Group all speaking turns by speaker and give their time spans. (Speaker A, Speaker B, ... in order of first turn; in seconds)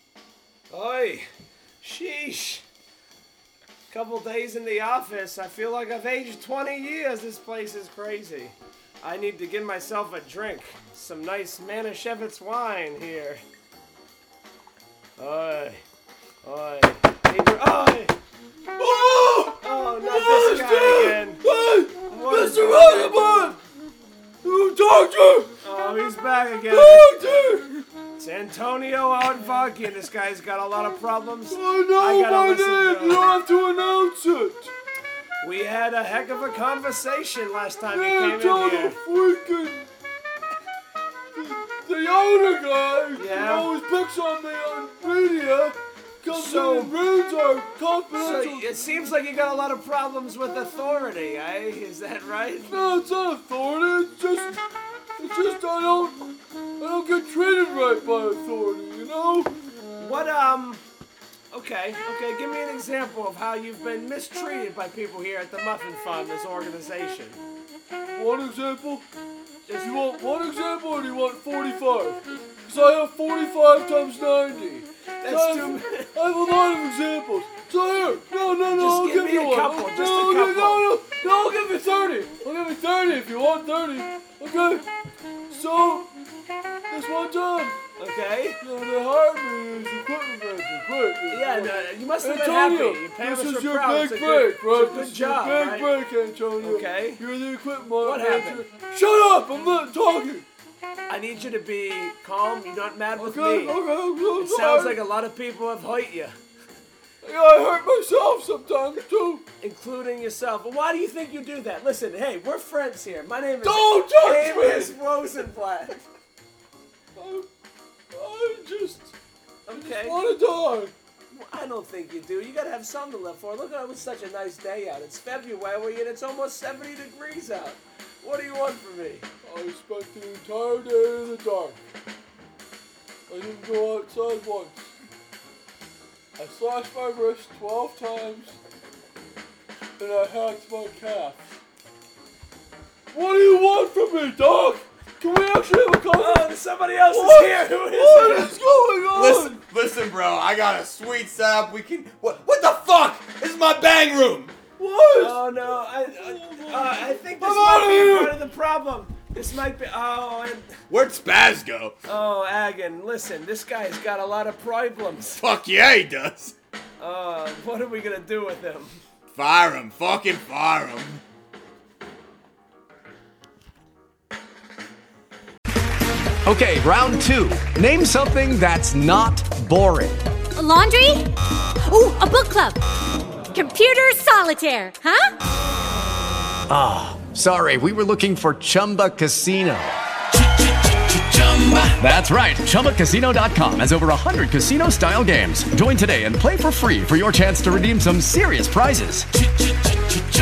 Speaker A: 0.7-1.3, 1.8-2.6, 3.9-13.4, 15.2-15.8, 16.4-18.1, 19.6-21.4, 22.1-23.6, 25.6-27.4, 28.2-33.3, 35.4-39.0, 43.2-43.7, 46.4-46.9, 48.2-52.7, 60.0-60.8, 61.5-67.4, 69.7-70.0, 75.2-76.1, 78.7-80.8, 88.0-88.6, 91.3-95.9, 96.6-97.2, 98.0-98.7, 101.1-103.8, 104.4-106.4, 109.6-116.0, 119.7-120.2, 121.3-129.3, 146.2-148.6, 155.2-160.7, 162.1-165.4, 167.0-169.0
Speaker B: 18.8-23.6, 24.4-25.5, 26.7-27.8, 31.5-34.7, 37.9-39.9, 41.4-48.7, 52.7-54.6, 55.2-59.5, 68.1-69.1, 69.7-84.9, 85.5-86.1, 86.9-87.8, 88.6-100.5, 103.2-105.1, 107.2-109.5, 113.6-115.0, 117.2-117.5, 118.1-119.1, 119.7-120.9, 129.4-131.8, 133.3-134.9, 136.4-138.6, 140.0-141.6, 143.1-146.5, 147.0-149.6, 154.8-158.5
Speaker C: 149.1-154.6, 160.9-162.0, 165.4-166.6, 169.3-171.2
Speaker D: 176.4-180.3, 186.7-189.9, 191.8-199.3
Speaker E: 180.6-182.8, 183.5-185.3